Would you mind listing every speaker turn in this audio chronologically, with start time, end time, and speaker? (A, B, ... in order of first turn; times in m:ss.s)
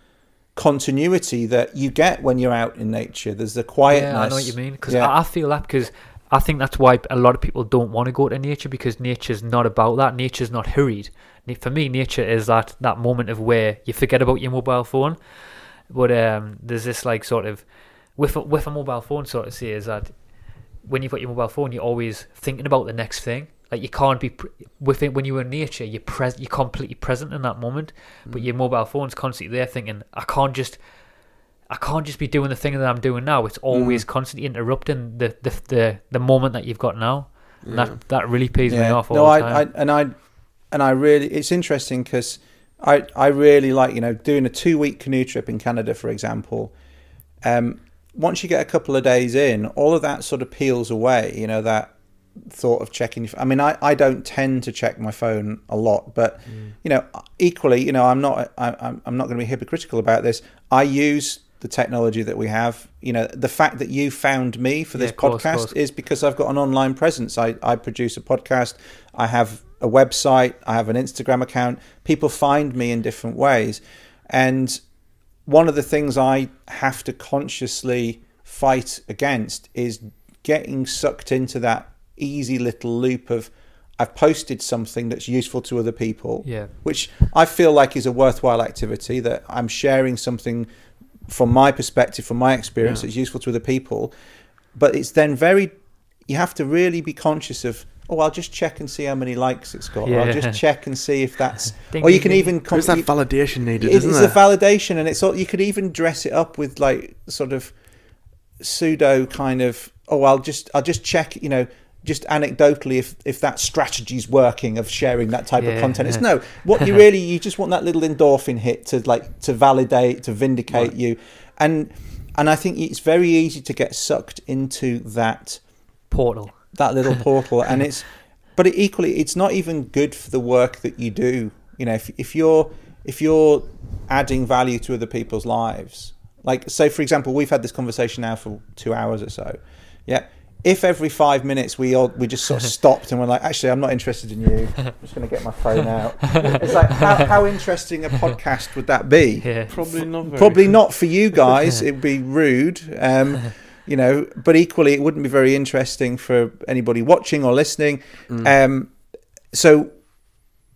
0:00.6-0:05.1 A
0:03.9-0:30.9 B
0:31.6-0:39.6 B
0:33.7-0:34.0 A
0:37.6-0:38.0 C
0:38.7-0:46.7 A
0:47.4-1:14.8 A
0:56.5-0:56.7 C
1:04.9-1:05.7 B
1:15.4-1:30.7 A
1:26.4-1:26.7 B
1:31.3-1:34.1 A
1:32.8-1:33.1 C
1:34.7-1:35.7 A
1:36.3-1:43.1 A
1:40.0-1:40.6 B
1:41.8-1:42.5 B
1:42.7-1:44.4 C
1:43.8-1:47.8 A
1:48.6-2:05.6 A
1:55.6-1:56.2 B
2:06.1-2:06.5 B
2:06.7-2:38.9 A
2:26.3-2:27.2 B
2:26.4-2:26.7 C
2:29.4-2:29.7 B
2:29.7-2:30.8 C
2:39.5-2:39.9 A